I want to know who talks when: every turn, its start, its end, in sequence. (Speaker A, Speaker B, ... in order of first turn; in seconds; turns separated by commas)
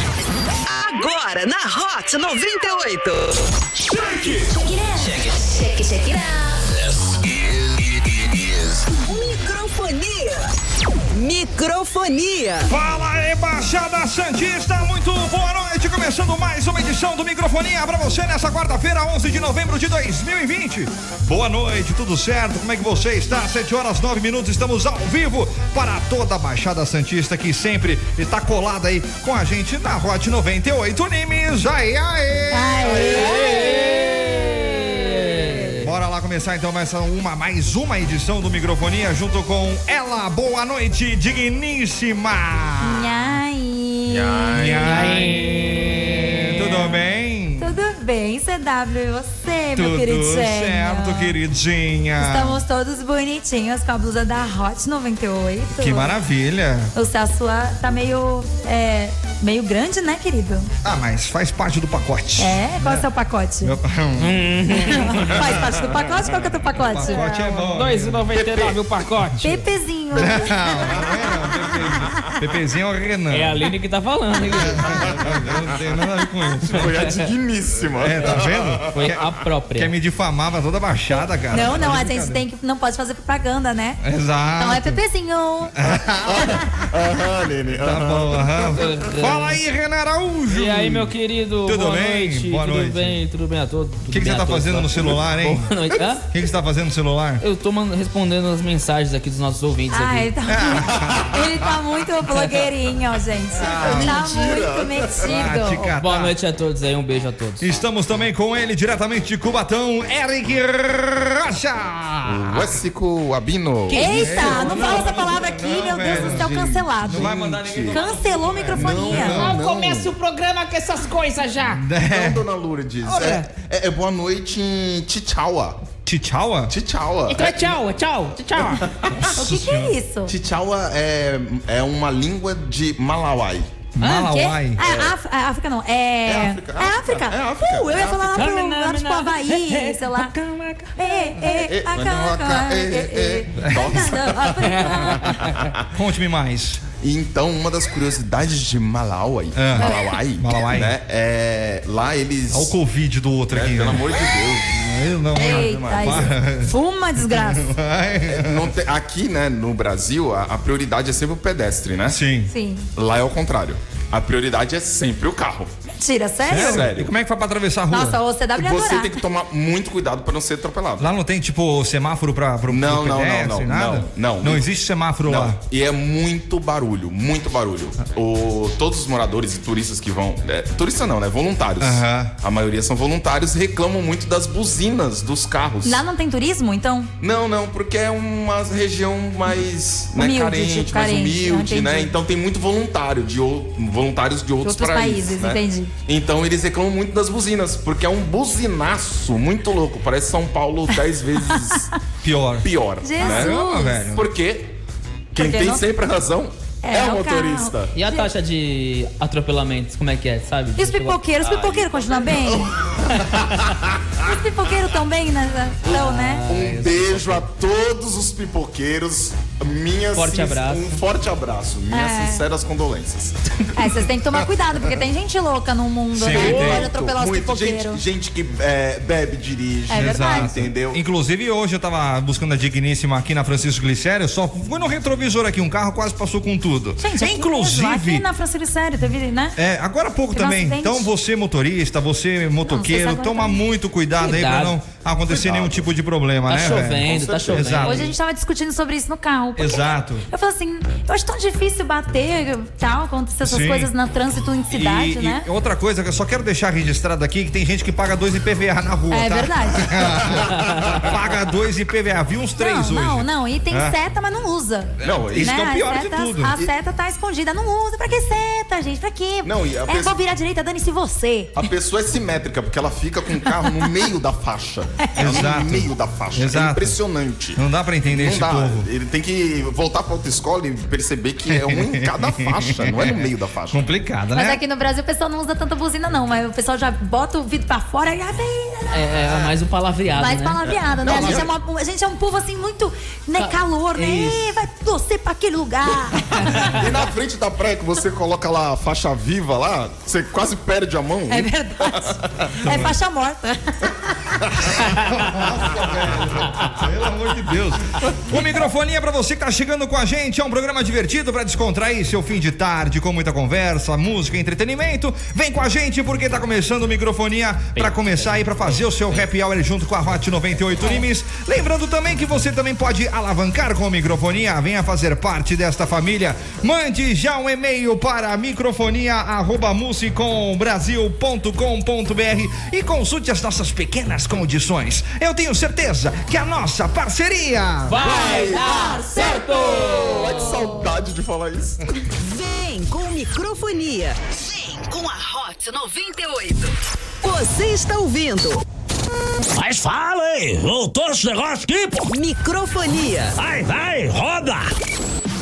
Speaker A: 0.6-3.4, Speaker A: 4.3-6.6, Speaker B: 4.7-5.0, Speaker C: 6.8-8.8, Speaker A: 9.0-10.5, Speaker A: 11.1-12.7, Speaker D: 12.7-33.4, Speaker B: 32.5-35.7, Speaker E: 33.1-35.9, Speaker D: 35.8-43.3, Speaker B: 42.8-44.5, Speaker F: 44.1-45.3, Speaker D: 44.5-47.8, Speaker E: 44.9-46.8, Speaker B: 47.6-51.4, Speaker D: 49.8-52.6, Speaker B: 52.2-56.1, Speaker D: 55.7-56.9, Speaker B: 56.9-60.7, Speaker D: 60.8-63.1, Speaker B: 62.4-63.8, Speaker D: 63.6-64.5, Speaker E: 64.2-65.4, Speaker B: 64.8-67.7, Speaker D: 65.1-65.5, Speaker D: 66.7-68.2, Speaker E: 67.3-69.7, Speaker F: 68.3-68.8, Speaker B: 69.4-71.0, Speaker D: 70.1-73.6, Speaker F: 70.7-71.5, Speaker E: 73.3-75.1, Speaker D: 74.5-77.2, Speaker F: 74.9-75.6, Speaker F: 76.6-79.2, Speaker D: 77.9-79.2, Speaker E: 78.9-79.9, Speaker D: 79.7-82.4, Speaker B: 81.5-84.0, Speaker D: 84.0-85.0, Speaker B: 84.6-85.8, Speaker D: 85.8-86.7, Speaker F: 86.2-89.1, Speaker D: 87.7-91.1, Speaker E: 88.7-89.6, Speaker E: 90.5-96.2, Speaker D: 91.6-93.2, Speaker D: 94.1-95.7, Speaker F: 95.0-95.3, Speaker D: 96.3-97.4, Speaker E: 97.4-100.3, Speaker B: 99.9-105.9, Speaker D: 100.5-101.5, Speaker F: 100.9-101.5, Speaker E: 102.3-102.7, Speaker D: 103.5-104.2, Speaker F: 103.6-105.5, Speaker D: 105.2-106.3, Speaker E: 106.0-107.7, Speaker D: 107.6-112.7, Speaker F: 112.2-115.3, Speaker B: 113.9-119.5, Speaker D: 114.0-119.6, Speaker F: 116.0-118.0, Speaker F: 118.7-120.1, Speaker E: 119.3-121.8, Speaker D: 121.7-122.4, Speaker F: 122.1-125.8, Speaker E: 123.0-123.5, Speaker D: 126.0-126.7, Speaker F: 126.7-127.8, Speaker E: 127.3-128.8, Speaker F: 128.5-129.3, Speaker D: 129.1-129.9, Speaker B: 129.3-130.3, Speaker F: 130.3-133.8, Speaker D: 133.9-134.8, Speaker E: 134.0-134.3, Speaker B: 134.0-140.3, Speaker F: 134.8-135.2, Speaker F: 136.2-138.5, Speaker E: 138.3-141.6, Speaker B: 140.9-145.4, Speaker F: 141.4-145.8, Speaker D: 143.6-144.1, Speaker E: 144.8-145.6, Speaker D: 145.9-146.8, Speaker F: 147.0-152.7, Speaker D: 149.6-150.9, Speaker B: 149.8-150.1, Speaker D: 152.5-156.7, Speaker F: 153.5-156.4, Speaker B: 155.3-157.7, Speaker D: 157.2-158.7, Speaker F: 158.3-162.2, Speaker D: 162.1-162.5, Speaker B: 162.5-162.9, Speaker F: 162.9-165.7, Speaker B: 165.9-166.9, Speaker D: 166.5-168.2, Speaker F: 166.5-167.1, Speaker B: 167.9-169.2, Speaker F: 168.6-171.1, Speaker D: 171.0-175.6, Speaker F: 172.7-174.7, Speaker F: 175.2-186.0, Speaker D: 181.8-182.3, Speaker B: 185.8-187.1, Speaker F: 187.2-201.9, Speaker B: 190.2-192.1, Speaker B: 194.6-195.9, Speaker B: 201.5-201.9, Speaker D: 202.2-204.2, Speaker F: 202.6-204.7, Speaker B: 203.0-204.0, Speaker F: 205.3-207.9, Speaker B: 205.3-205.8, Speaker B: 206.8-208.3, Speaker E: 207.9-211.2, Speaker B: 210.8-213.0, Speaker F: 211.4-214.1, Speaker B: 214.2-216.4, Speaker E: 215.8-217.4, Speaker F: 215.9-223.5, Speaker E: 220.1-221.0, Speaker B: 221.9-222.4, Speaker B: 223.7-228.0, Speaker D: 226.1-226.9, Speaker F: 226.3-231.0, Speaker B: 229.9-230.5, Speaker D: 229.9-238.2, Speaker B: 237.0-239.6, Speaker D: 239.6-248.1, Speaker B: 240.3-241.1, Speaker B: 242.7-243.6, Speaker E: 244.2-244.8, Speaker F: 245.3-245.9, Speaker E: 246.5-248.1, Speaker F: 246.9-247.9, Speaker B: 247.8-255.5, Speaker D: 249.6-250.2, Speaker D: 253.4-253.9, Speaker D: 254.7-263.9, Speaker B: 259.1-260.3, Speaker F: 260.3-261.0, Speaker E: 260.6-260.9, Speaker B: 262.6-271.5, Speaker D: 265.0-266.6, Speaker F: 265.0-265.6, Speaker F: 269.4-270.2, Speaker F: 271.5-283.8, Speaker B: 275.1-275.4, Speaker D: 275.2-277.0, Speaker D: 277.6-278.9, Speaker D: 281.5-284.6, Speaker B: 284.3-289.2, Speaker E: 288.9-291.4, Speaker B: 290.1-296.8, Speaker F: 290.7-291.5, Speaker E: 293.4-294.4, Speaker F: 296.4-302.8, Speaker E: 296.4-296.8, Speaker B: 301.3-304.3, Speaker D: 302.6-303.0, Speaker F: 304.4-304.9, Speaker D: 304.6-338.0, Speaker E: 317.8-319.2, Speaker E: 337.9-340.6, Speaker F: 337.9-342.1, Speaker B: 338.0-340.6, Speaker A: 342.1-348.6, Speaker C: 349.5-352.1, Speaker A: 352.1-353.4, Speaker C: 353.3-354.7